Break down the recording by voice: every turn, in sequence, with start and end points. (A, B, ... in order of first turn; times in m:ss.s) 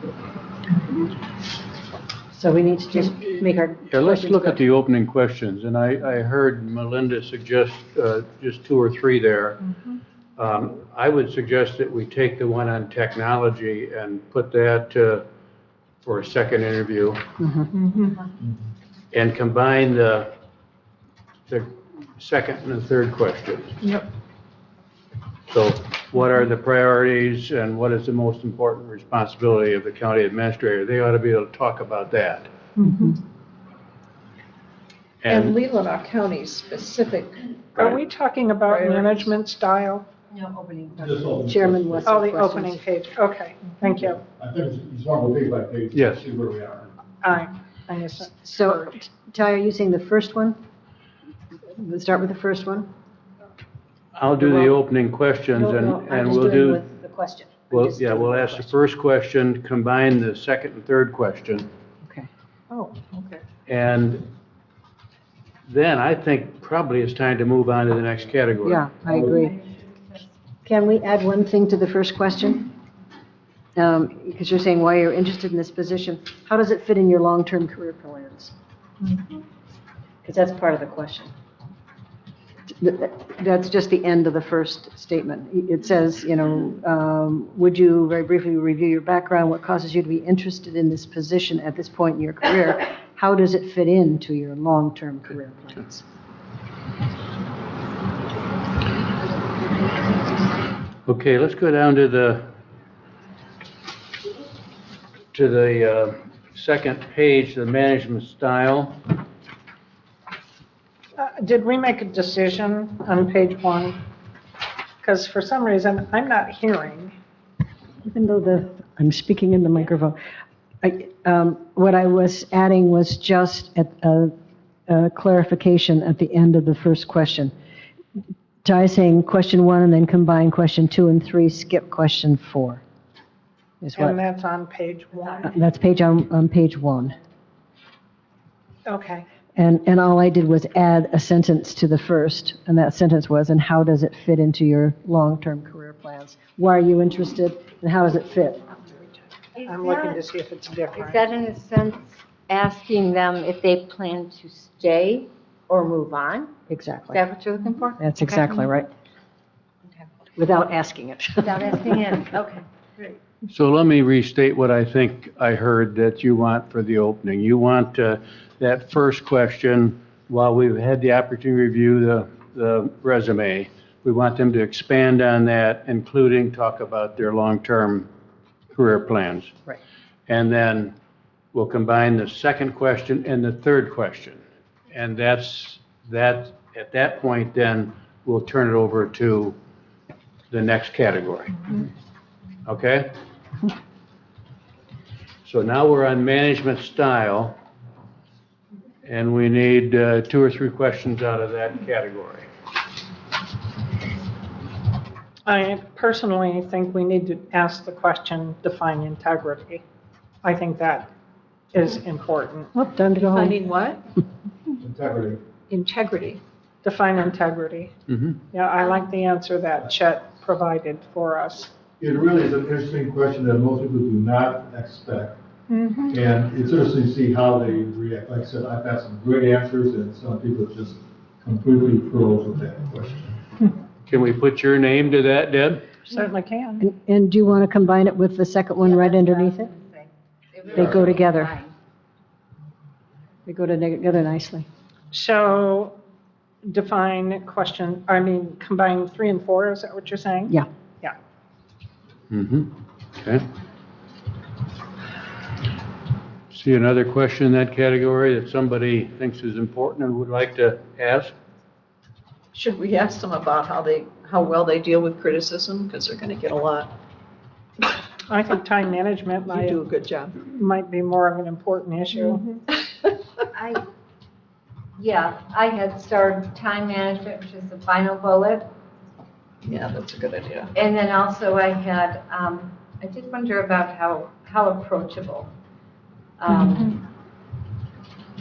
0:02.3-0:04.6 A
0:03.9-0:09.6 B
0:10.4-0:15.2 B
0:16.0-0:17.2 B
0:17.4-0:17.7 A
0:17.7-0:18.2 C
0:19.1-0:20.3 B
0:21.5-0:23.8 B
0:25.5-0:32.5 B
0:32.8-0:33.2 C
0:35.2-0:35.6 B
0:35.3-0:37.8 D
0:37.8-0:40.1 C
0:38.6-0:39.4 D
0:40.3-0:41.5 E
0:41.0-0:42.3 F
0:41.4-0:42.8 A
0:42.0-0:44.2 C
0:44.0-0:46.9 F
0:45.9-0:46.2 B
0:47.2-0:49.0 C
0:48.4-0:50.6 A
0:51.7-0:52.9 A
0:54.2-0:56.8 B
0:54.4-0:54.7 A
0:55.6-0:58.7 A
0:57.7-1:01.7 B
1:03.7-1:04.3 B
1:05.7-1:08.9 B
1:08.6-1:09.7 A
1:10.6-1:12.7 A
1:13.8-1:18.5 A
1:20.2-1:21.3 A
1:22.8-1:36.0 A
1:41.1-1:42.5 B
1:45.3-1:49.0 B
1:51.2-1:54.0 C
1:55.0-1:57.2 C
1:58.0-2:00.2 A
2:00.8-2:04.3 A
2:04.9-2:07.5 A
2:08.6-2:12.8 A
2:13.8-2:14.2 A
2:14.0-2:15.6 C
2:15.4-2:17.2 A
2:18.9-2:19.3 C
2:19.6-2:28.8 A
2:29.6-2:30.2 E
2:29.6-2:31.3 C
2:30.9-2:36.5 E
2:36.7-2:37.2 A
2:37.1-2:38.6 E
2:38.0-2:38.9 A
2:40.4-2:42.0 A
2:41.4-2:43.1 E
2:43.5-2:58.1 B
2:58.7-2:59.6 B
3:00.3-3:01.0 B
3:01.5-3:04.4 B
3:04.9-3:09.6 B
3:10.5-3:11.6 B
3:12.7-3:13.1 B
3:15.4-3:17.6 B
3:19.0-3:22.5 B
3:25.5-3:29.8 C
3:30.4-3:31.1 C
3:31.7-3:32.7 C
3:32.8-3:33.6 A
3:33.2-3:34.1 D
3:34.8-3:35.4 F
3:35.7-3:36.4 D
3:36.8-3:37.9 C
3:38.1-3:38.4 B
3:38.5-3:41.7 C
3:42.0-3:45.4 F
3:45.7-3:46.1 C
3:46.1-3:53.4 F
3:54.1-3:55.8 B
3:56.1-3:56.8 C
3:56.8-3:59.7 A
3:58.8-4:01.7 E
4:00.7-4:01.6 A
4:03.5-4:04.7 A
4:05.1-4:06.0 C
4:06.6-4:11.2 C
4:12.3-4:13.4 B
4:16.5-4:21.3 B
4:22.5-4:27.0 D
4:28.3-4:29.8 C
4:29.5-4:30.4 D
4:30.4-4:32.4 C
4:33.5-4:33.8 E
4:35.0-4:38.7 E
4:39.6-4:40.7 D
4:40.7-4:45.5 E
4:46.4-4:47.0 E